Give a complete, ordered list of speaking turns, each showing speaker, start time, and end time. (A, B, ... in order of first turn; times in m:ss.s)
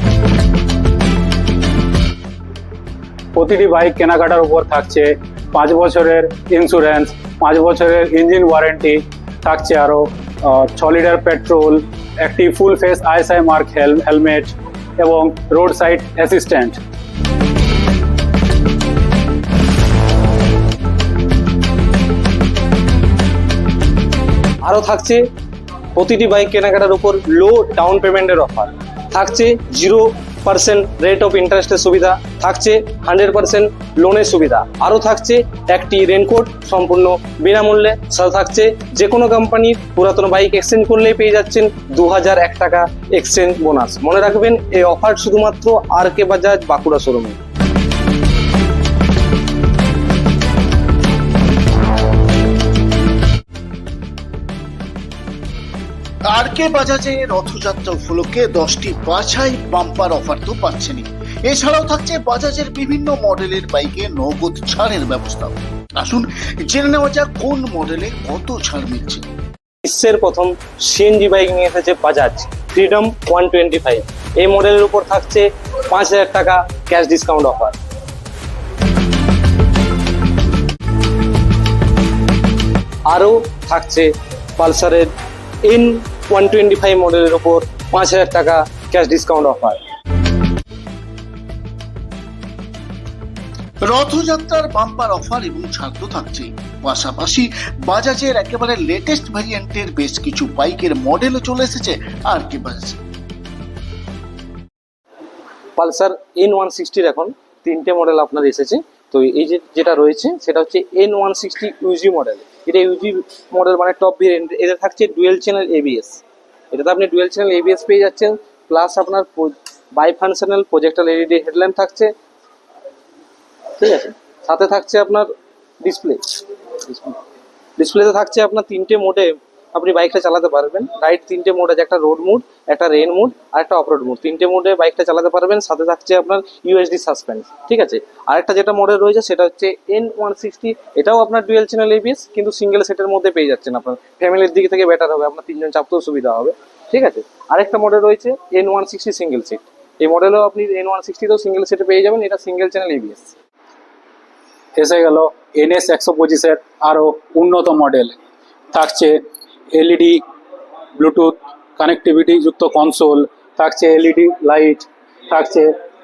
0:03.3-0:16.8 A
0:24.6-0:25.3 B
0:25.9-0:47.4 B
0:56.3-1:09.2 C
1:09.8-1:17.8 B
1:23.1-1:25.1 B
1:25.6-1:29.8 B
1:33.8-1:43.0 C
1:45.8-2:02.1 B
2:03.8-2:07.2 B
2:07.8-2:33.3 B
2:34.8-2:38.2 A
2:38.7-2:39.2 A
2:39.7-2:40.2 A
2:41.0-2:45.7 A